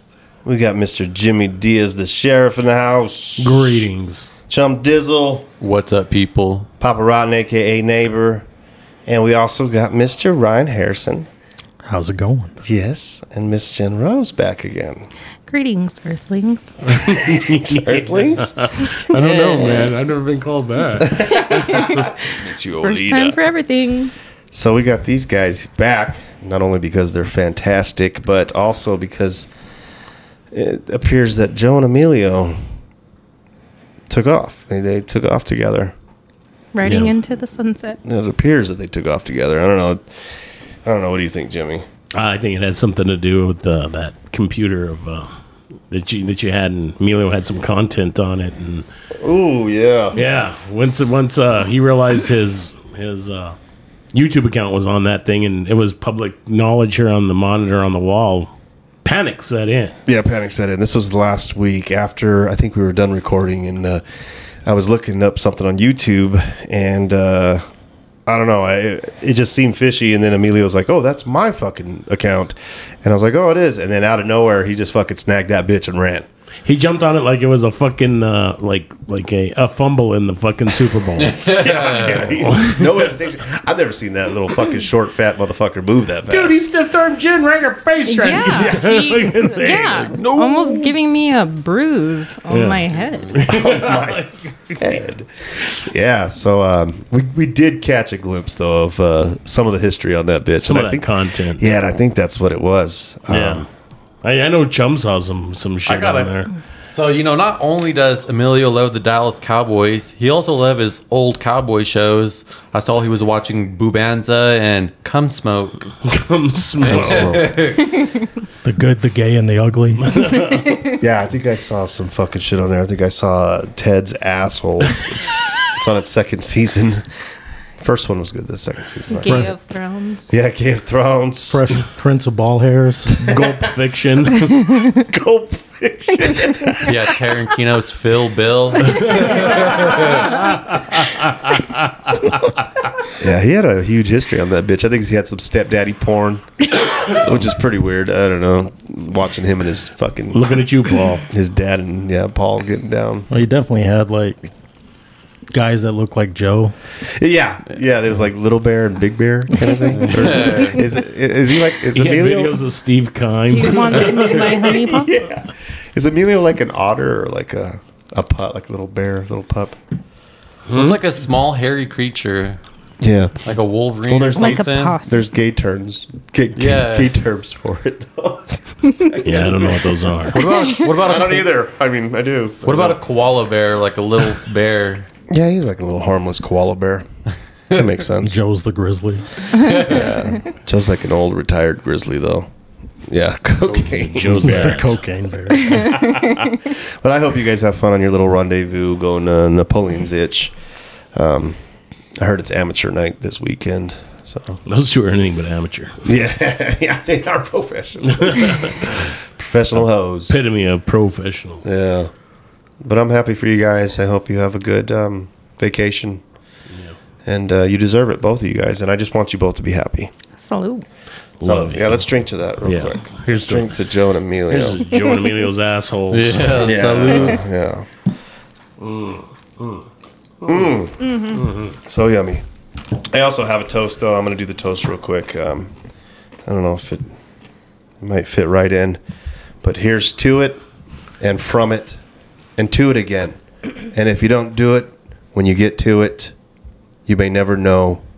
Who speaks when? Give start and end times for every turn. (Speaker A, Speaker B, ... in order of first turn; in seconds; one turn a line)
Speaker A: 0.5-3.9
Speaker B: 3.4-4.3
Speaker A: 4.5-5.5
Speaker C: 5.6-6.7
Speaker A: 6.8-8.4
Speaker A: 9.1-11.3
Speaker D: 11.9-12.6
Speaker A: 12.6-15.1
Speaker E: 15.5-16.9
Speaker B: 16.9-22.0
Speaker A: 17.1-20.0
Speaker A: 21.0-23.4
Speaker E: 21.3-24.1
Speaker A: 24.5-29.5
Speaker A: 30.5-32.6
Speaker A: 34.1-35.9
Speaker E: 36.7-38.0
Speaker B: 36.9-37.1
Speaker A: 38.0-40.0
Speaker A: 40.9-41.9
Speaker B: 42.1-45.3
Speaker B: 45.9-48.9
Speaker A: 49.2-50.2
Speaker B: 50.1-53.6
Speaker B: 54.1-58.5
Speaker B: 59.0-60.0
Speaker A: 60.1-64.0
Speaker A: 64.7-67.6
Speaker A: 68.3-76.3
Speaker B: 76.7-81.4
Speaker C: 81.2-82.3
Speaker A: 81.4-86.7
Speaker B: 82.2-83.1
Speaker B: 86.3-90.7
Speaker E: 88.0-93.4
Speaker A: 90.2-90.6
Speaker B: 92.5-95.0
Speaker A: 93.5-94.3
Speaker A: 94.8-103.7
Speaker B: 100.6-101.7
Speaker B: 103.3-103.7
Speaker B: 104.2-106.5
Speaker C: 105.8-106.3
Speaker C: 106.9-115.9
Speaker B: 116.0-117.5
Speaker C: 116.8-117.9
Speaker A: 116.8-117.7
Speaker D: 118.6-120.1
Speaker B: 120.0-121.0
Speaker E: 120.5-121.0
Speaker A: 121.0-127.1
Speaker A: 127.8-129.5
Speaker E: 129.1-130.3
Speaker A: 130.3-131.7
Speaker D: 131.5-133.3
Speaker A: 133.2-133.7
Speaker B: 133.3-134.8
Speaker A: 134.9-137.0
Speaker C: 136.8-140.4
Speaker B: 138.9-142.6
Speaker A: 143.1-150.5
Speaker C: 147.1-147.5
Speaker B: 150.3-151.3
Speaker A: 151.3-153.3
Speaker D: 153.3-154.4
Speaker D: 155.5-156.8
Speaker A: 157.2-162.6
Speaker C: 159.9-160.8
Speaker B: 161.9-164.4
Speaker E: 163.5-165.2
Speaker A: 163.8-169.8
Speaker B: 170.7-171.0
Speaker C: 170.7-172.6
Speaker A: 173.0-183.0
Speaker C: 173.4-175.0
Speaker E: 174.4-175.2
Speaker C: 176.6-177.1
Speaker B: 179.2-180.5
Speaker C: 180.3-181.5
Speaker E: 180.5-180.8
Speaker C: 182.6-185.1
Speaker A: 185.3-187.1
Speaker A: 187.7-188.4
Speaker D: 188.2-189.4
Speaker E: 189.5-190.0
Speaker C: 189.6-190.1
Speaker A: 189.7-192.5
Speaker A: 193.1-194.8
Speaker B: 193.7-195.0
Speaker D: 194.4-195.9
Speaker A: 195.6-200.5
Speaker E: 195.7-196.5
Speaker A: 201.1-201.6
Speaker A: 202.2-204.6
Speaker B: 204.7-206.0
Speaker A: 206.0-210.4
Speaker B: 208.1-209.0
Speaker B: 209.8-211.6
Speaker A: 211.6-212.1
Speaker A: 212.8-216.2
Speaker B: 216.7-217.0
Speaker A: 217.3-220.1
Speaker E: 220.4-220.8
Speaker B: 221.4-222.1
Speaker A: 221.4-224.8
Speaker B: 222.7-223.7
Speaker B: 224.5-226.8
Speaker E: 224.9-225.3
Speaker C: 226.1-227.4
Speaker A: 226.6-227.9
Speaker B: 228.8-229.9
Speaker B: 230.4-230.8
Speaker A: 230.4-231.1
Speaker E: 231.0-231.4
Speaker B: 231.3-231.8
Speaker A: 231.8-232.4
Speaker A: 233.1-235.7
Speaker A: 236.5-237.1
Speaker A: 238.0-239.0
Speaker A: 239.6-240.6
Speaker A: 241.2-242.0
Speaker A: 242.6-243.4
Speaker A: 243.9-246.3
Speaker A: 247.1-248.0